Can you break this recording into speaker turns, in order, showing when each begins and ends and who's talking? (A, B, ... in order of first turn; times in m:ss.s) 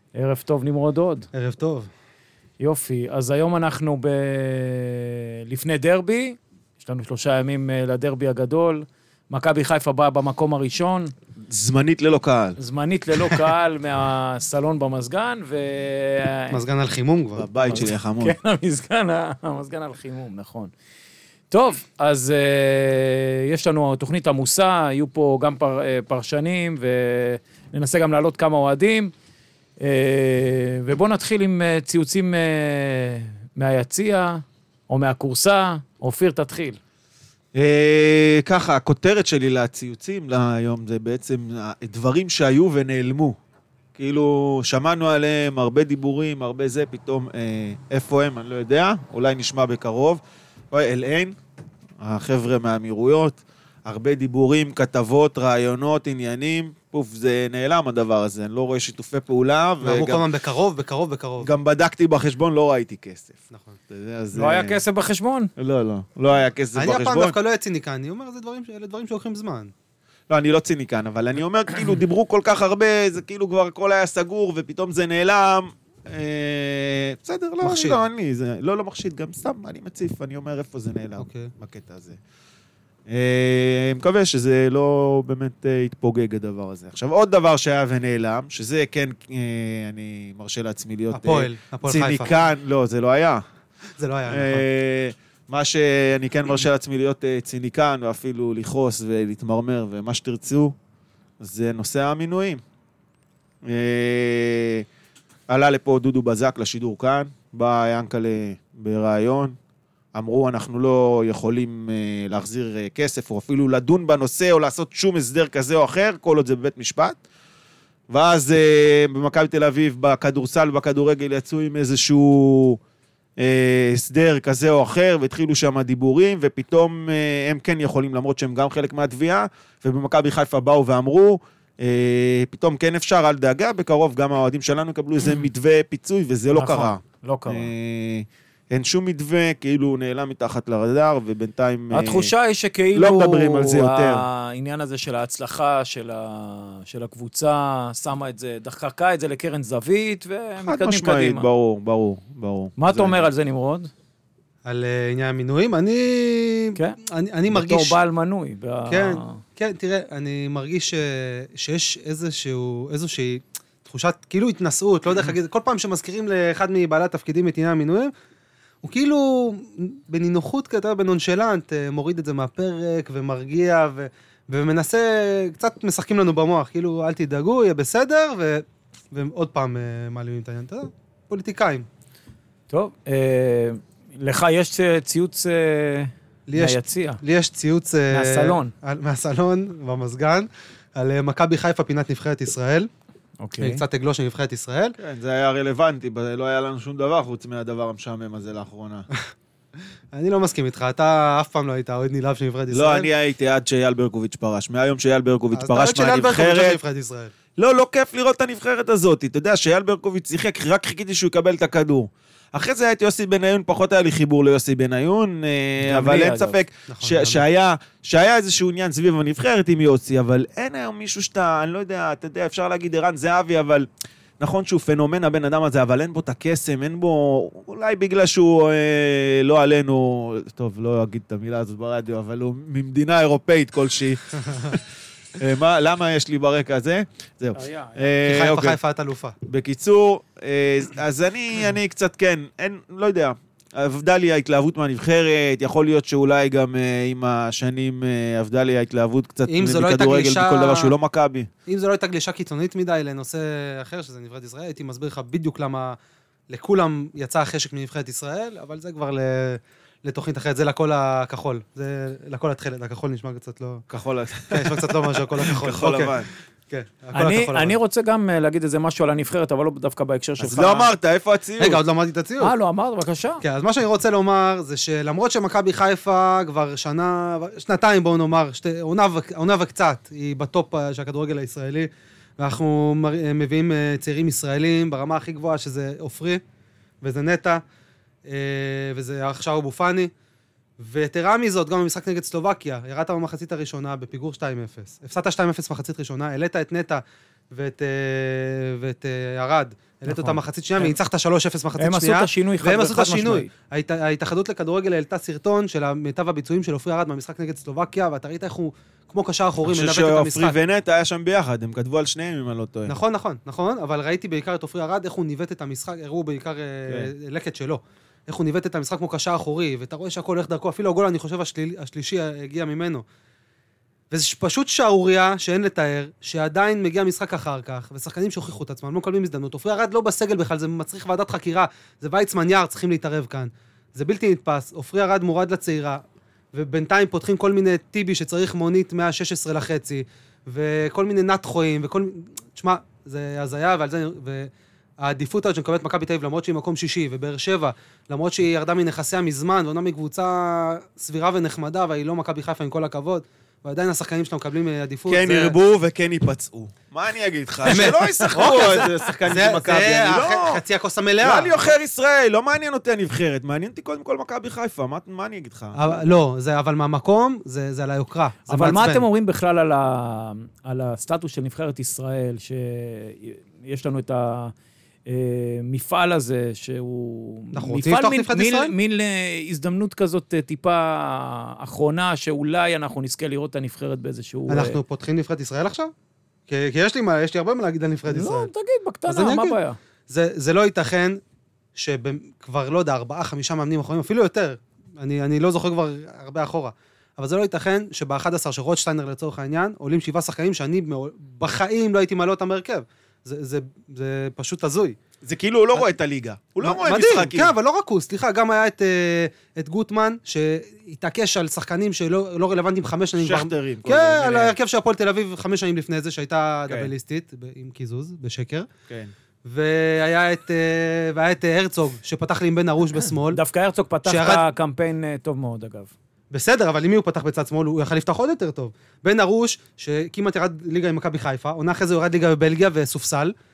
0:00.1-0:01.3 A
0:01.3-0:01.9 B
0:02.6-0:11.1 A
0:11.5-0:12.6 C
0:12.6-0:16.6 A
0:16.5-0:17.5 B
0:17.4-0:18.4 C
0:17.6-0:20.7 A
0:21.5-0:29.1 A
0:29.8-0:36.8 A
0:37.5-0:43.4 C
0:44.0-0:51.4 C
0:52.0-1:00.2 C
0:59.8-1:01.5 B
1:01.4-1:04.8 C
1:04.3-1:05.5 A
1:05.6-1:07.3 C
1:06.7-1:09.7 B
1:10.3-1:22.2 C
1:17.6-1:18.0 B
1:21.2-1:21.5 B
1:23.1-1:33.4 C
1:31.1-1:32.3 B
1:34.0-1:34.6 B
1:34.3-1:40.8 C
1:41.4-1:42.6 C
1:43.6-1:44.8 C
1:45.5-1:49.6 C
1:50.1-1:57.2 C
1:58.1-2:02.8 C
2:03.4-2:22.3 C
2:16.5-2:17.7 A
2:21.9-2:31.5 A
2:22.9-2:24.2 C
2:30.6-2:33.2 C
2:32.8-2:33.9 A
2:34.6-2:38.0 B
2:36.7-2:39.4 A
2:38.9-2:48.1 B
2:48.8-3:01.9 B
3:02.7-3:07.2 A
3:06.5-3:12.9 B
3:08.1-3:08.7 A
3:13.4-3:13.8 A
3:13.6-3:15.0 B
3:15.0-3:19.0 C
3:20.1-3:23.1 B
3:22.7-3:26.8 C
3:25.5-3:27.3 B
3:27.6-3:43.9 C
3:35.8-3:36.6 A
3:36.9-3:37.4 B
3:44.4-3:54.8 C
3:55.4-3:58.8 C
3:57.6-3:58.0 A
3:58.2-3:59.4 B
3:59.4-4:11.5 C
4:09.5-4:10.9 B
4:11.6-4:16.0 B
4:16.5-4:23.8 B
4:23.9-4:26.3 C
4:24.5-4:27.8 B
4:27.1-4:30.9 A
4:30.4-4:31.8 C
4:31.6-4:32.5 B
4:32.4-4:33.4 A
4:33.4-4:46.4 B
4:47.0-4:47.6 B
4:48.2-4:50.1 B
4:50.8-5:10.6 B
5:00.1-5:00.9 A
5:01.8-5:03.5 A
5:09.7-5:12.9 C
5:12.9-5:23.0 B
5:24.1-5:55.6 B
5:55.1-6:00.6 C
5:57.6-6:01.7 B
6:01.2-6:06.0 C
6:05.7-6:09.0 B
6:08.5-6:14.5 A
6:15.1-6:24.8 A
6:17.5-6:18.7 B
6:24.5-6:25.9 B
6:26.5-6:28.5 B
6:28.1-6:29.8 A
6:29.1-6:31.2 B
6:31.7-6:45.0 B
6:45.2-6:47.5 C
6:46.6-6:58.7 B
6:53.2-6:54.5 C
6:59.4-7:03.4 B
7:03.3-7:05.9 A
7:04.0-7:04.4 B
7:06.3-7:13.3 B